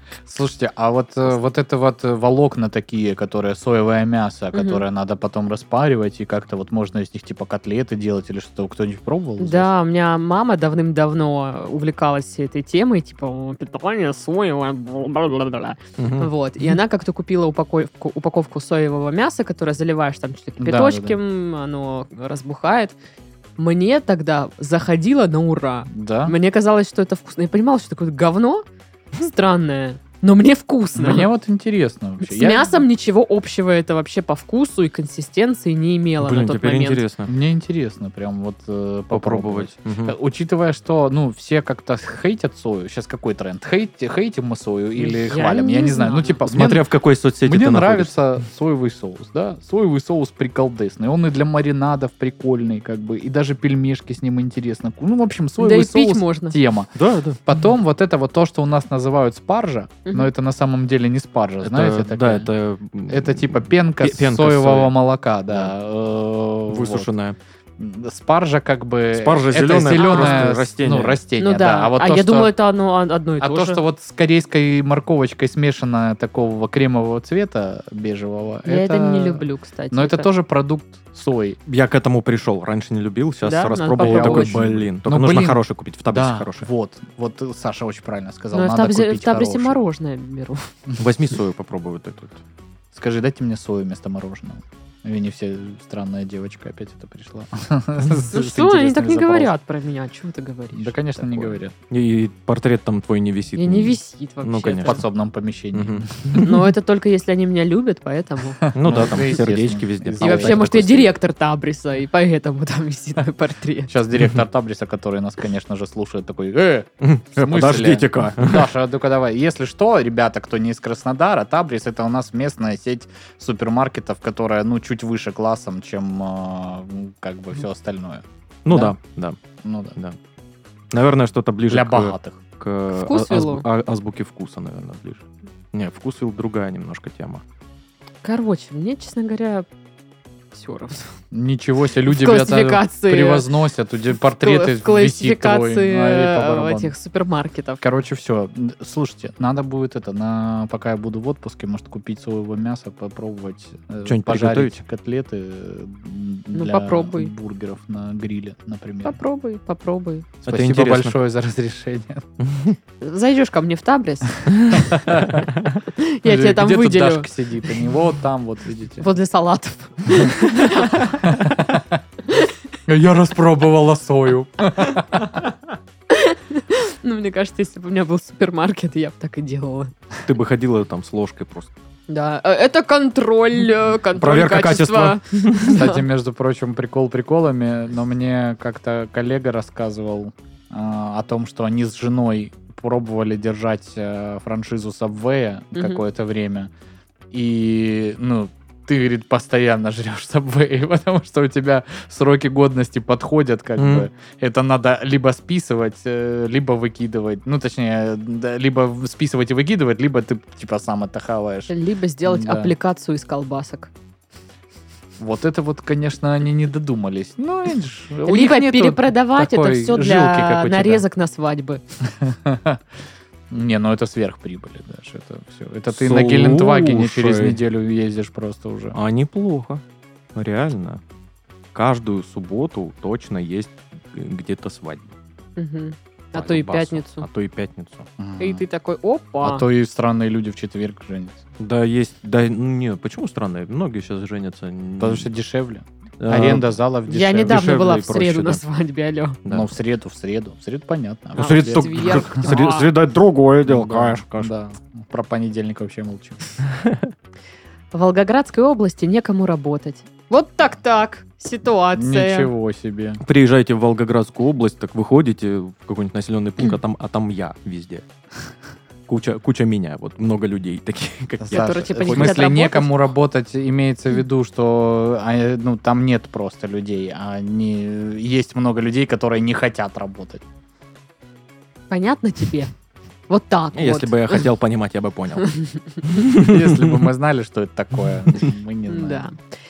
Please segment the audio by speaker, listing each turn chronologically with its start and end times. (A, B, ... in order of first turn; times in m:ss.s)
0:00.2-0:09.7 A
0:04.5-0:04.8 B
0:09.4-0:23.0 B
0:16.0-0:16.3 C
0:20.6-0:21.2 A
0:23.6-0:31.3 B
0:25.9-0:26.4 A
0:31.0-0:32.8 A
0:32.2-0:37.0 B
0:36.2-0:37.3 C
0:37.3-0:46.9 A
0:39.1-0:40.2 C
0:45.0-0:46.4 B
0:46.5-0:48.1 C
0:47.4-0:56.9 A
0:55.6-0:56.6 B
0:57.0-0:57.4 C
0:57.4-1:02.5 A
1:00.1-1:00.3 B
1:01.6-1:05.0 C
1:03.1-1:07.1 A
1:06.7-1:07.4 C
1:07.8-1:12.5 A
1:09.1-1:11.2 C
1:09.9-1:10.5 B
1:11.4-1:13.8 B
1:13.4-1:21.6 A
1:18.6-1:20.3 B
1:21.7-1:26.7 C
1:23.4-1:24.6 B
1:24.0-1:29.8 A
1:28.5-1:30.7 B
1:31.0-1:32.4 C
1:32.9-1:39.5 A
1:38.3-1:41.0 B
1:40.7-1:41.7 A
1:41.9-1:45.0 C
1:43.6-1:45.0 B
1:44.8-1:46.3 A
1:45.7-1:46.6 C
1:46.3-1:49.3 B
1:48.7-1:50.6 A
1:48.7-1:51.1 C
1:50.2-1:53.9 B
1:53.9-2:09.0 A
1:57.0-1:58.7 C
2:08.6-2:09.4 C
2:09.6-2:10.0 A
2:10.9-2:17.4 C
2:11.7-2:12.4 A
2:12.9-2:13.6 B
2:18.2-2:19.7 B
2:20.5-2:21.1 B
2:21.3-2:26.9 A
2:22.1-2:23.5 B
2:24.3-2:27.8 B
2:27.8-2:39.2 A
2:34.1-2:34.8 C
2:36.5-2:37.3 B
2:39.0-2:40.3 B
2:40.4-2:42.2 A
2:40.5-2:41.2 C
2:42.4-2:42.8 C
2:43.0-2:45.0 B
2:44.9-2:45.4 A
2:46.0-2:47.3 B
2:46.2-2:49.1 A
2:49.0-2:51.2 B
2:51.2-2:52.0 A
2:52.9-2:55.4 A
2:56.1-2:59.9 B
3:00.2-3:01.7 C
3:02.1-3:06.0 B
3:04.2-3:05.8 C
3:05.7-3:16.7 A
3:15.8-3:16.0 B
3:17.3-3:31.7 A
3:23.8-3:24.1 C
3:31.7-3:33.9 B
3:32.2-3:32.7 A
3:35.2-3:41.0 A
3:38.3-3:41.8 B
3:42.2-3:42.8 A
3:43.5-3:49.0 A
3:45.9-3:47.6 C
3:48.9-3:49.8 C
3:50.4-3:51.0 C
3:51.7-3:55.2 C
3:55.6-3:57.3 B
3:56.4-3:58.1 C
3:58.2-3:58.6 A
3:58.4-3:59.6 B
3:59.4-4:01.4 A
4:01.6-4:05.3 C
4:05.0-4:07.7 A
4:06.2-4:06.8 C
4:07.1-4:09.4 B
4:07.4-4:08.6 C
4:09.4-4:09.7 C
4:09.5-4:12.6 A
4:11.4-4:14.5 C
4:11.4-4:12.9 B
4:13.6-4:16.4 A
4:16.7-4:17.1 C
4:17.9-4:22.5 B
4:22.0-4:23.2 A
4:23.2-4:28.0 C
4:29.1-4:32.5 C
4:31.4-4:40.4 A
4:31.5-4:33.0 B
4:41.9-4:42.7 B
4:43.3-4:44.5 B
4:43.7-4:47.0 C
4:45.5-4:46.2 B
4:46.3-4:49.3 A
4:48.9-4:49.4 B